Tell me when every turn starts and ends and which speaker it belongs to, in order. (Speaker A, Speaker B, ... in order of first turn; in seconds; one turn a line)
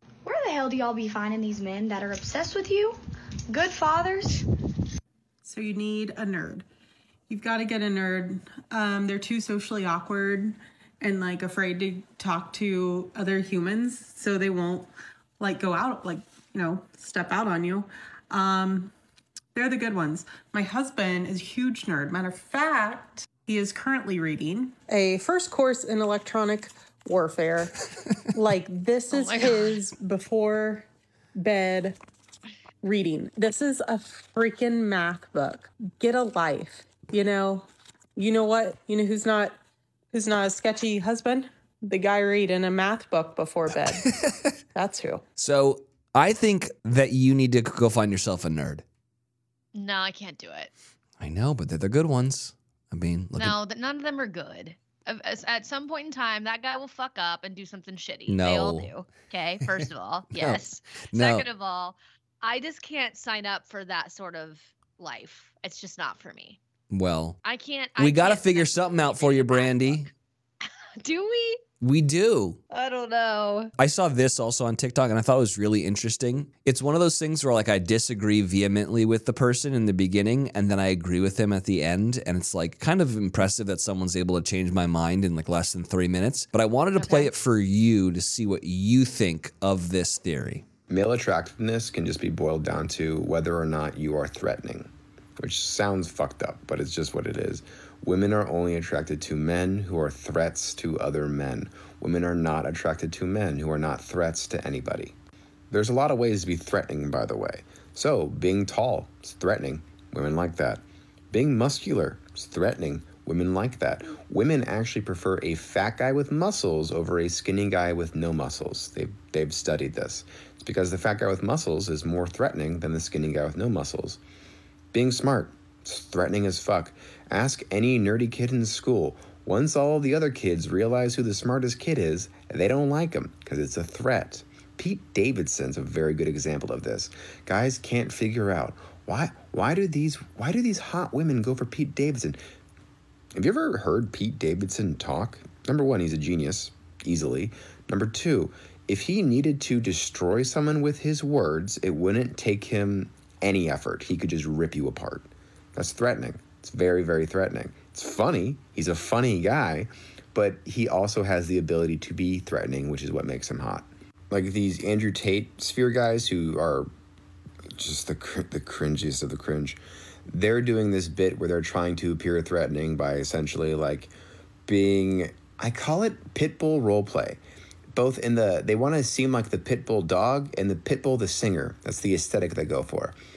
Speaker A: 0.2-3.0
Speaker A: 3.5-4.5
Speaker B: 5.4-6.6
Speaker B: 7.3-18.9
Speaker B: 19.5-32.0
Speaker C: 29.1-29.8
Speaker B: 32.8-39.6
Speaker B: 40.1-44.0
Speaker D: 43.7-44.5
Speaker B: 44.7-45.2
Speaker D: 45.4-48.8
Speaker C: 49.7-50.7
Speaker D: 51.2-53.5
Speaker C: 53.4-66.6
Speaker D: 58.3-58.9
Speaker D: 60.3-61.5
Speaker D: 66.9-67.4
Speaker C: 67.4-70.1
Speaker D: 68.0-70.1
Speaker C: 70.6-71.6
Speaker D: 71.8-72.6
Speaker C: 72.7-73.7
Speaker D: 73.8-90.6
Speaker C: 87.0-87.3
Speaker E: 90.9-105.1
Speaker E: 105.7-124.2
Speaker E: 124.9-142.4
Speaker E: 143.3-166.9
Speaker E: 167.7-174.1
Speaker E: 174.7-177.4
Speaker E: 177.9-183.2